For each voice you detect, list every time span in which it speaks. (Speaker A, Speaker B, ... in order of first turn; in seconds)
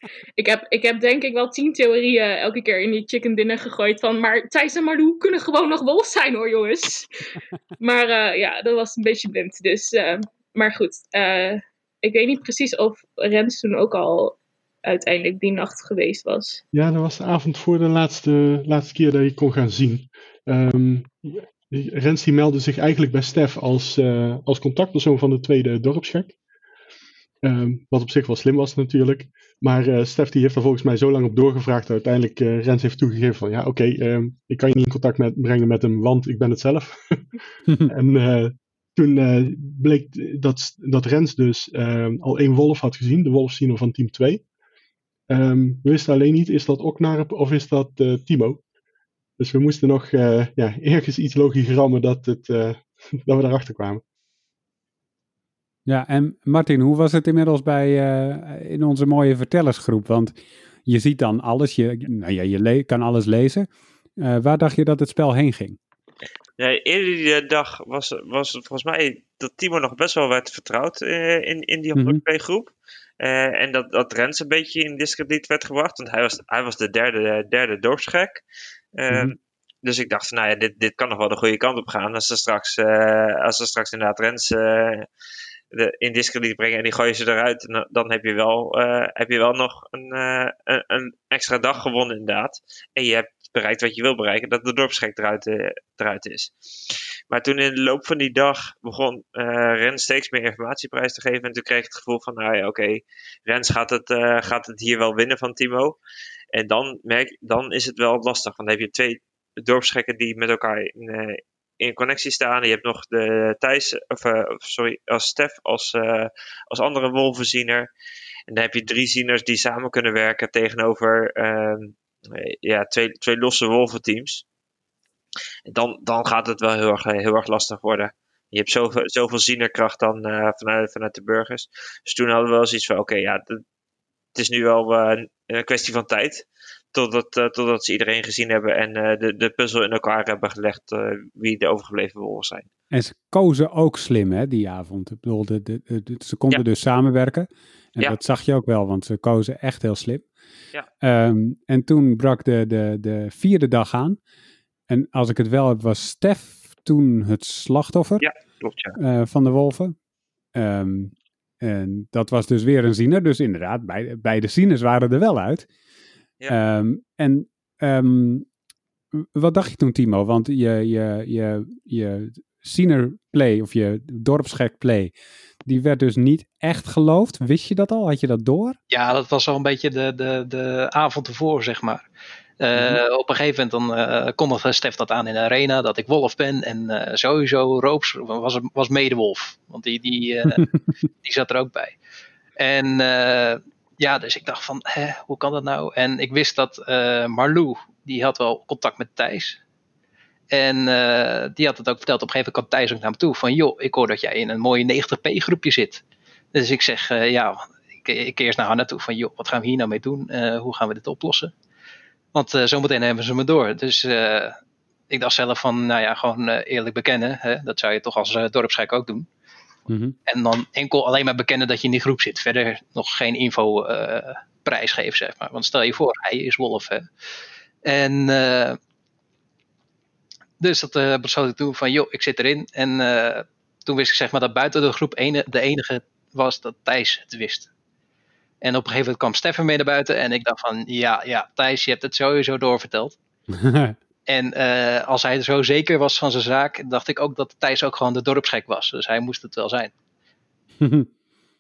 Speaker A: 0.4-16.6
Speaker B: 16.7-26.4, 27.4-37.3, 37.8-44.4, 45.3-48.6, 49.4-54.0
Speaker C: 55.9-60.3, 60.9-65.8, 72.0-72.2, 142.9-150.3, 151.0-154.2, 154.9-158.2, 158.9-159.9, 160.6-165.7, 166.5-168.5, 169.2-175.1, 175.7-178.8, 182.8-183.0, 219.9-220.1, 243.5-244.0, 250.8-251.1
Speaker D: 66.6-78.4, 79.0-85.1, 85.7-96.5, 97.3-106.0, 106.5-117.9, 118.5-124.5, 125.7-133.6, 134.3-142.7, 158.2-159.0
Speaker E: 178.9-182.1, 182.6-190.6, 191.2-192.0, 192.6-199.6, 200.5-206.0, 206.5-211.5, 212.3-214.6, 215.1-219.3, 220.3-227.1, 227.8-228.8, 230.6-237.7, 238.6-243.2, 244.3-249.9